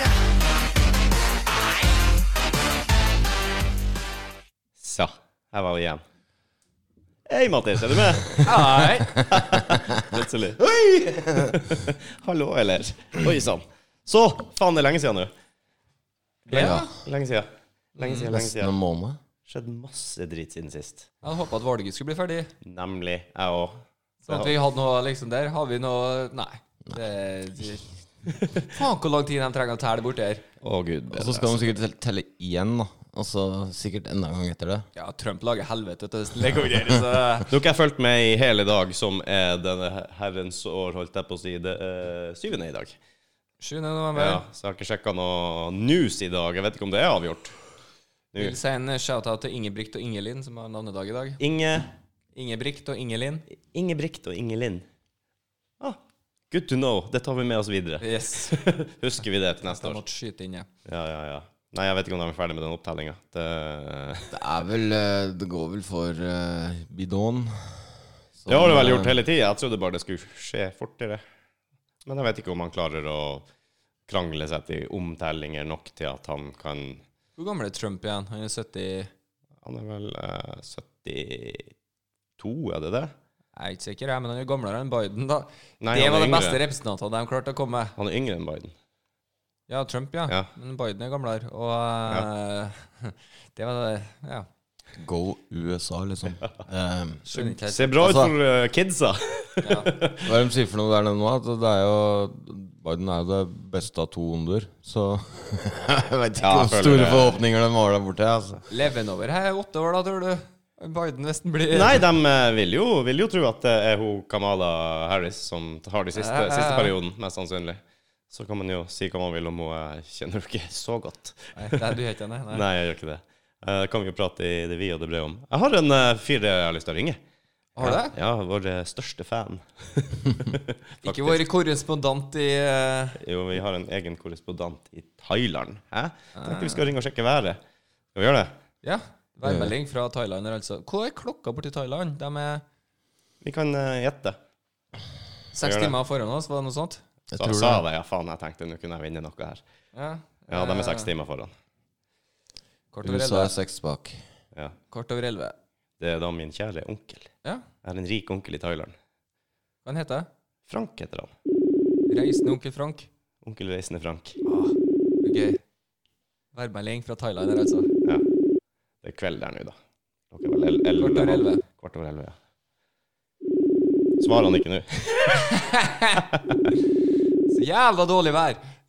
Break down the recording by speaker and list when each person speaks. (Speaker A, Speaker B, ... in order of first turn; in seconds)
Speaker A: 4.8-6.0, 7.3-10.6, 11.4-15.3, 17.0-18.7, 19.5-21.1, 22.6-24.5, 30.6-31.6, 37.5-43.0, 44.1-47.5, 51.4-51.9, 53.5-54.9, 56.5-60.0, 60.9-64.4, 68.5-71.2, 72.0-73.5, 74.1-77.0, 79.6-81.7, 82.4-83.1, 85.8-86.6, 88.0-88.7, 97.7-100.3, 106.4-107.4, 111.7-121.9, 122.5-127.2, 127.8-131.4, 133.2-137.6, 138.2-138.5, 143.4-144.4, 145.6-145.9, 147.4-149.6, 150.5-151.5, 156.0-157.3, 157.8-158.9, 160.7-161.3, 163.4-164.4, 169.0-169.8, 170.3-172.4, 174.2-175.6, 176.2-176.7
Speaker B: 8.4-9.2, 16.5-16.9, 18.0-18.3, 21.2-22.5, 24.3-27.9, 28.6-30.4, 35.0-37.5, 43.6-44.4, 48.4-51.4, 52.4-53.5, 58.0-58.6, 59.6-60.7, 77.4-79.1, 83.6-87.9, 89.7-94.5, 97.3-98.0, 99.6-99.9, 108.7-112.1, 116.2-116.9, 121.5-122.7, 127.8-128.1, 131.0-133.2, 136.4-136.9, 138.8-142.6, 145.5-147.0, 149.9-151.1, 152.9-153.5, 154.9-155.6, 159.8-160.3, 162.1-163.1, 164.4-165.6, 166.5-167.9, 171.0-171.6, 175.6-176.2, 177.5-178.6
Speaker C: 10.6-11.6, 16.5-16.9, 18.3-19.2, 31.1-34.9, 64.3-69.2, 95.0-98.3, 100.2-108.6, 139.4-139.7, 147.3-147.8, 153.0-154.2